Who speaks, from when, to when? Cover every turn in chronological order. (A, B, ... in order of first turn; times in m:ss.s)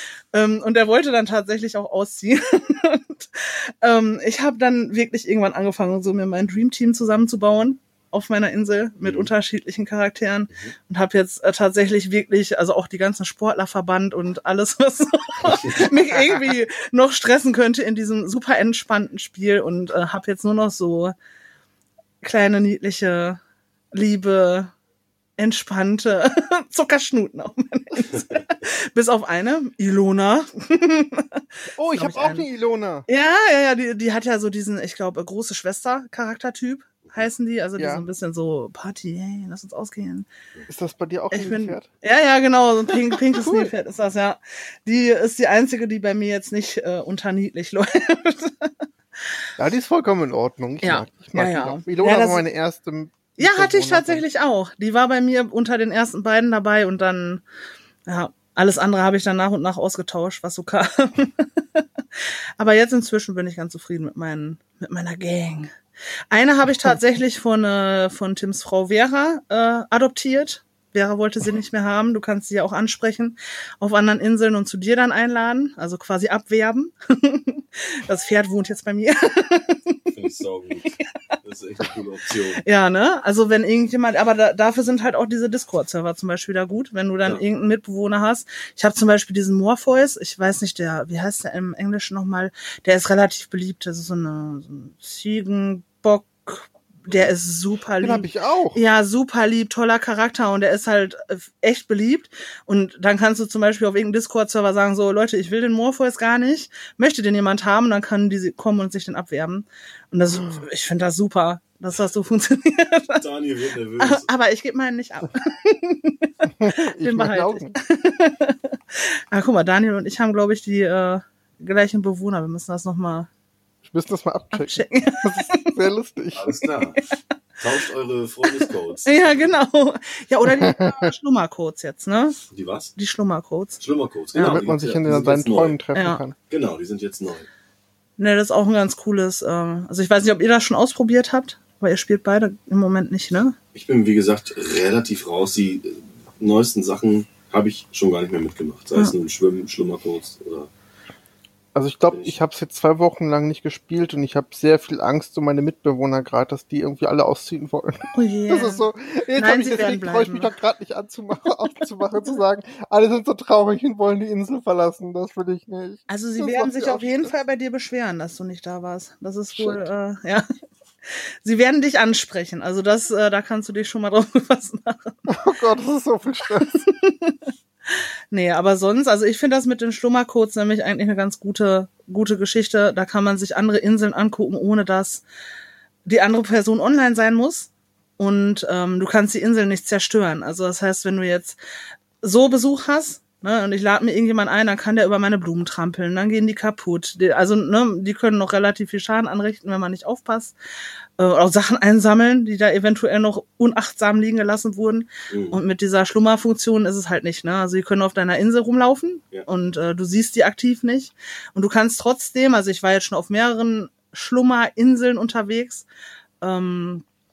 0:00.3-0:21.1 A
0:09.0-0:09.3 B
0:22.2-0:23.4 A
0:23.9-0:24.7 A
0:25.4-0:32.4 A
0:31.8-0:33.0 C
0:33.1-0:40.3 A
0:37.8-0:38.0 C
0:40.7-0:41.8 C
0:41.3-0:48.7 A
0:43.3-0:43.7 C
0:49.6-0:54.2 C
0:50.8-0:52.4 A
0:53.4-0:57.4 A
0:58.0-1:01.8 A
1:02.6-1:05.7 A
1:06.3-1:20.0 A
1:20.1-1:22.6 B
1:22.6-1:53.2 A
1:38.0-1:38.8 C
1:53.2-1:54.3 B
1:54.0-2:03.3 A
1:56.6-1:57.7 C
2:03.9-2:06.4 C
2:04.5-2:05.7 A
2:06.4-2:07.0 B
2:07.6-2:09.5 B
2:08.5-2:12.4 A
2:10.4-2:11.1 C
2:12.5-2:12.9 B
2:13.0-2:13.8 A
2:13.8-2:15.8 B
2:14.3-2:14.6 A
2:14.4-2:16.3 C
2:15.9-2:16.2 A
2:16.5-2:17.5 B
2:18.2-2:23.6 A
2:23.7-2:30.7 B
2:31.7-2:47.3 C
2:32.1-2:32.4 B
2:38.2-2:40.5 A
2:46.1-2:50.5 A
2:49.5-2:49.9 C
2:51.0-2:55.2 A
2:55.3-2:56.8 C
2:56.7-2:57.4 A
2:57.9-3:05.2 A
3:06.0-3:11.6 A
3:12.2-3:20.6 A
3:21.2-3:35.8 A
3:25.3-3:25.6 B
3:36.4-3:37.0 A